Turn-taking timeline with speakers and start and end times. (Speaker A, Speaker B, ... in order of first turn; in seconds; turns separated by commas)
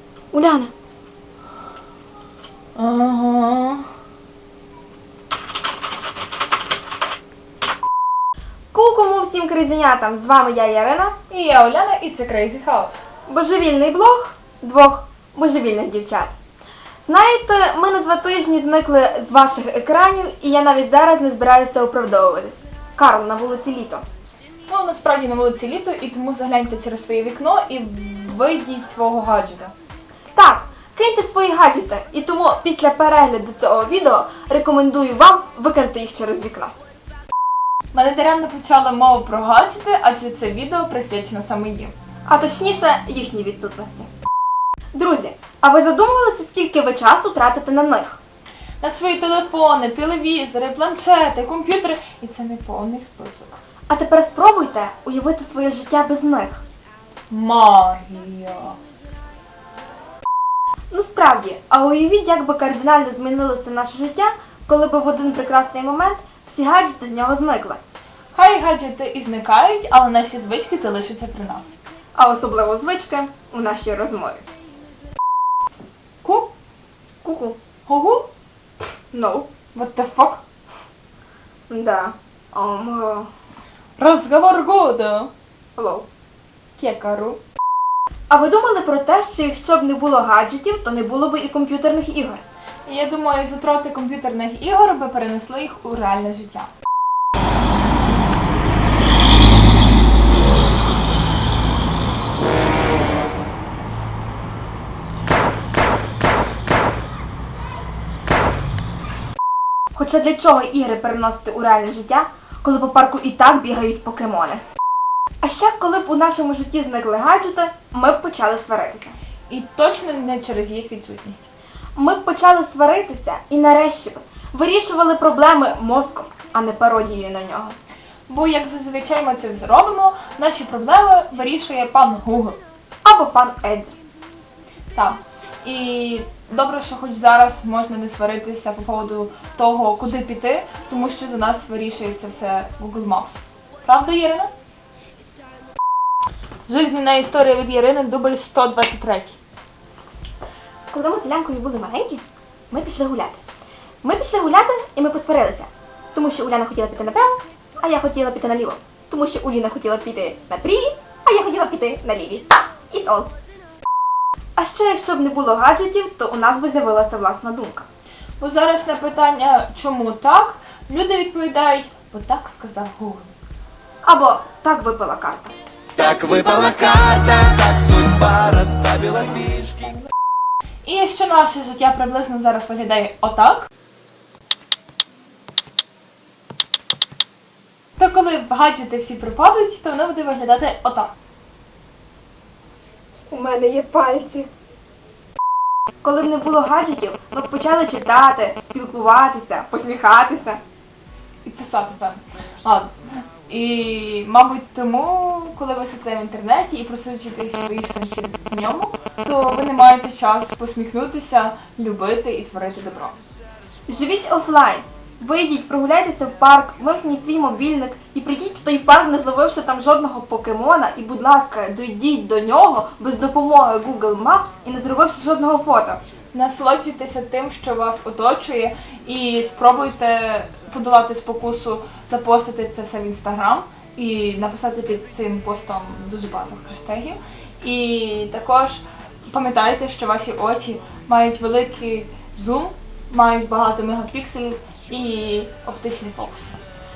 Speaker A: 0.3-0.7, Speaker B: 2.8-3.9, Speaker A: 8.7-11.2, Speaker B: 11.3-13.1, Speaker A: 13.3-16.3, Speaker A: 17.0-24.0, Speaker B: 24.7-29.7, Speaker A: 30.3-36.7, Speaker B: 37.9-41.9, Speaker A: 42.3-44.1, Speaker A: 45.0-48.2, Speaker B: 48.8-53.6, Speaker A: 53.9-56.6, Speaker B: 57.3-58.8, Speaker A: 60.9-67.8, Speaker B: 68.3-71.8, Speaker A: 72.2-74.4, Speaker B: 76.2-76.5, Speaker A: 77.2-77.6, Speaker B: 77.9-78.3, Speaker A: 79.1-79.5, Speaker B: 79.8-80.4, Speaker A: 81.7-83.3, Speaker B: 84.0-85.3, Speaker A: 85.8-86.1, Speaker B: 86.8-87.4, Speaker A: 88.3-92.4, Speaker B: 92.9-96.7, Speaker A: 109.9-114.6, Speaker A: 115.4-119.2, Speaker B: 119.5-121.5, Speaker A: 122.0-127.8, Speaker B: 128.3-132.6, Speaker A: 133.0-134.0, Speaker B: 134.9-144.5, Speaker B: 146.7-149.4, Speaker A: 150.9-153.4, Speaker A: 154.0-163.3, Speaker A: 164.6-167.9, Speaker B: 168.4-173.3, Speaker A: 174.0-175.5, Speaker C: 175.9-179.8, Speaker B: 180.8-183.7, Speaker B: 188.0-191.1, Speaker A: 193.3-194.5, Speaker A: 196.0-200.6, Speaker B: 201.4-202.9, Speaker B: 203.5-213.2, Speaker A: 213.9-226.0, Speaker B: 226.3-246.6